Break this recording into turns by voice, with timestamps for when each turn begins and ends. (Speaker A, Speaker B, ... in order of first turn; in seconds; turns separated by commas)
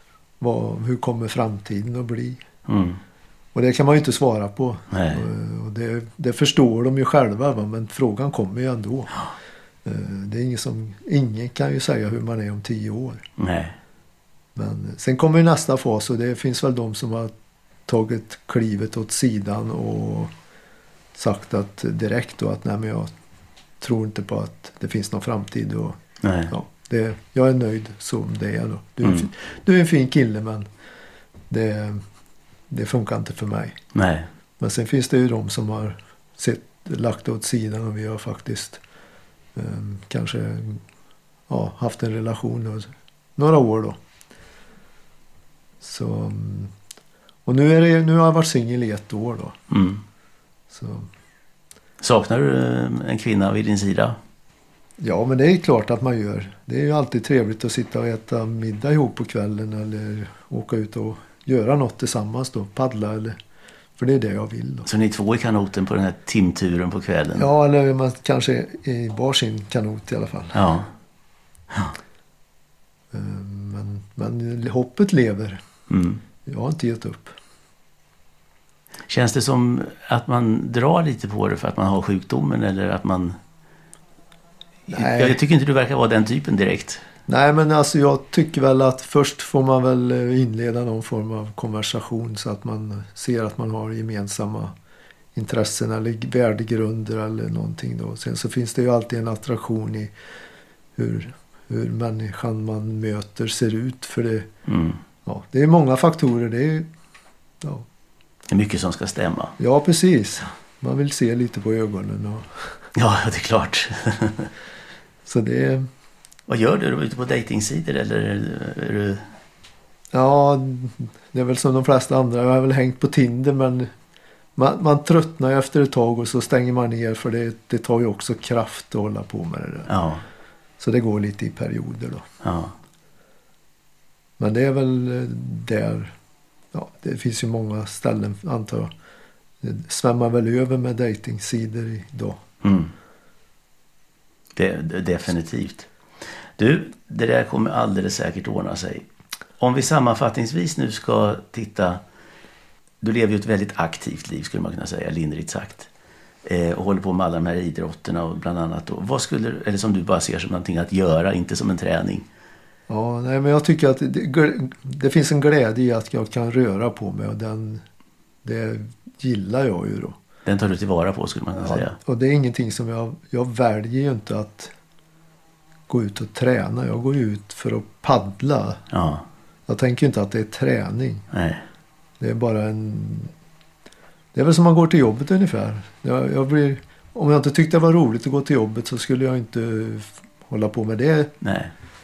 Speaker A: 0.4-2.4, Speaker B: 2.7-3.0, Speaker A: 3.5-9.2, Speaker B: 4.9-5.2, Speaker A: 9.8-13.2, Speaker B: 13.4-13.7, Speaker A: 14.5-17.3, Speaker A: 17.9-20.3, Speaker A: 21.1-23.1, Speaker A: 23.8-26.0, Speaker B: 26.2-26.5, Speaker A: 26.5-30.6, Speaker B: 29.0-29.3, Speaker A: 31.5-32.0, Speaker A: 32.7-33.8, Speaker B: 33.9-34.3, Speaker A: 34.6-38.8, Speaker A: 39.5-40.8, Speaker A: 41.5-44.0, Speaker A: 45.8-46.7, Speaker A: 47.5-49.6, Speaker B: 49.7-50.0, Speaker A: 50.7-51.1, Speaker B: 52.0-54.2, Speaker A: 55.0-63.4, Speaker A: 64.0-64.9, Speaker B: 64.8-67.5, Speaker A: 67.4-70.6, Speaker B: 70.5-70.9, Speaker A: 73.1-75.6, Speaker B: 75.9-76.2, Speaker A: 76.5-77.4, Speaker B: 79.1-83.3, Speaker A: 84.9-85.4, Speaker B: 84.9-87.0, Speaker A: 87.3-94.7, Speaker A: 95.3-100.1, Speaker A: 101.0-104.5, Speaker B: 104.7-105.0, Speaker A: 105.2-106.9, Speaker A: 107.6-107.8, Speaker B: 108.5-109.5, Speaker A: 109.6-112.7, Speaker B: 113.0-114.5, Speaker A: 115.2-115.9, Speaker B: 116.5-119.2, Speaker A: 120.1-123.9, Speaker A: 124.6-129.9, Speaker B: 129.9-130.2, Speaker A: 130.8-132.2, Speaker B: 132.4-132.7, Speaker A: 134.4-136.1, Speaker A: 136.7-138.9, Speaker A: 139.6-142.4, Speaker B: 142.6-142.9, Speaker B: 144.6-145.9, Speaker B: 146.6-149.1, Speaker B: 149.6-152.0, Speaker B: 153.0-155.9, Speaker B: 156.4-162.2, Speaker A: 162.9-167.8, Speaker A: 168.4-170.2, Speaker B: 170.4-171.9, Speaker A: 171.6-174.7, Speaker A: 175.9-178.8, Speaker B: 178.9-179.2, Speaker A: 179.7-181.2, Speaker B: 181.3-181.6, Speaker A: 182.2-183.3, Speaker A: 184.3-191.3, Speaker B: 191.4-191.7